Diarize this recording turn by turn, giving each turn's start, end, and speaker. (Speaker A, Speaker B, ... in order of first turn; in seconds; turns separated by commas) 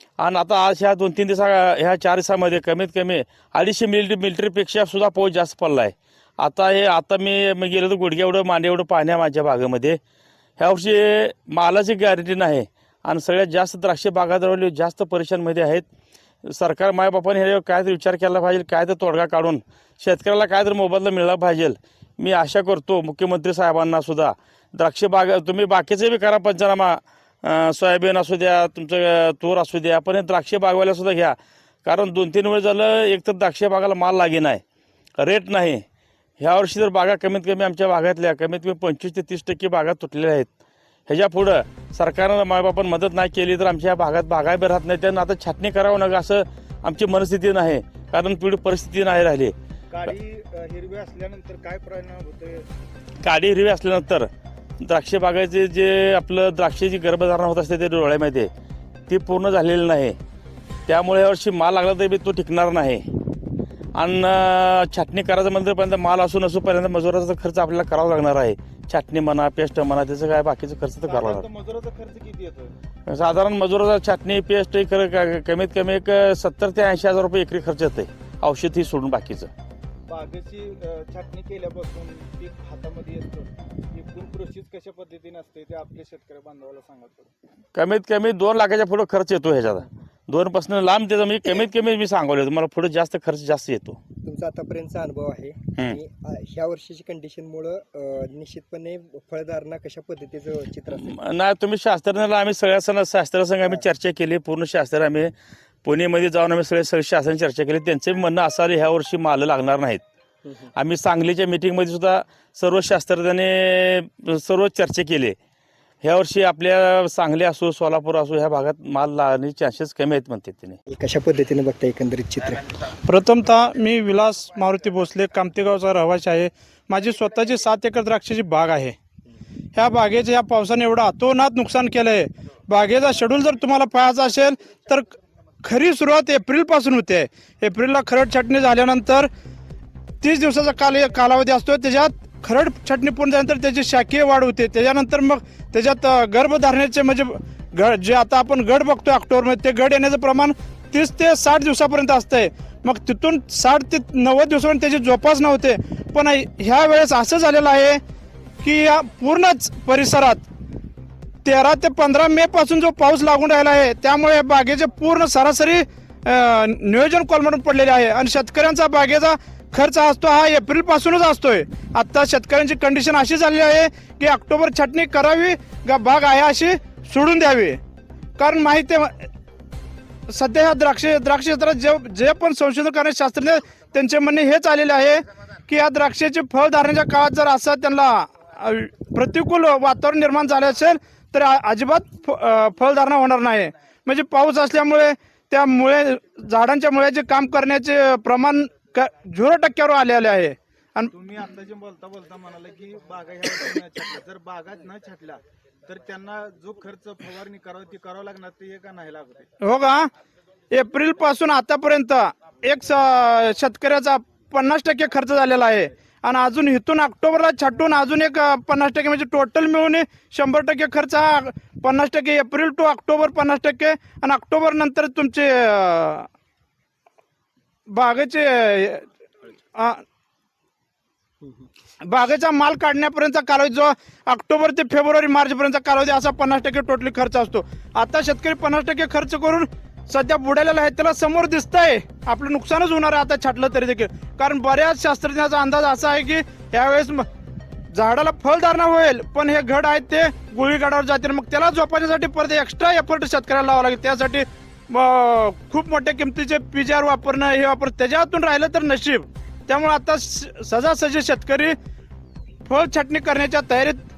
Speaker A: 0.2-10.0, Speaker A: 10.6-15.8, Speaker A: 16.4-34.6, Speaker A: 35.2-35.8, Speaker A: 36.4-40.5, Speaker A: 41.1-49.5, Speaker B: 49.9-52.7, Speaker A: 53.2-54.3, Speaker A: 54.8-58.5, Speaker A: 59.1-60.1, Speaker A: 60.9-63.0, Speaker A: 63.9-71.4, Speaker B: 71.0-72.7, Speaker A: 73.1-79.5, Speaker B: 80.1-87.3, Speaker A: 87.7-94.0, Speaker C: 94.2-101.1, Speaker A: 101.0-105.3, Speaker A: 105.8-110.0, Speaker A: 110.8-115.3, Speaker A: 116.0-120.8, Speaker C: 120.9-122.6, Speaker D: 123.0-128.9, Speaker D: 129.7-139.3, Speaker D: 140.2-158.0, Speaker D: 158.6-160.4, Speaker D: 161.4-177.8, Speaker D: 178.4-179.1, Speaker D: 180.3-201.1, Speaker B: 201.1-209.5, Speaker D: 209.6-210.1, Speaker D: 210.7-226.3, Speaker D: 227.9-229.1, Speaker D: 229.7-230.0, Speaker D: 232.0-247.2, Speaker D: 247.9-261.8, Speaker D: 262.6-264.0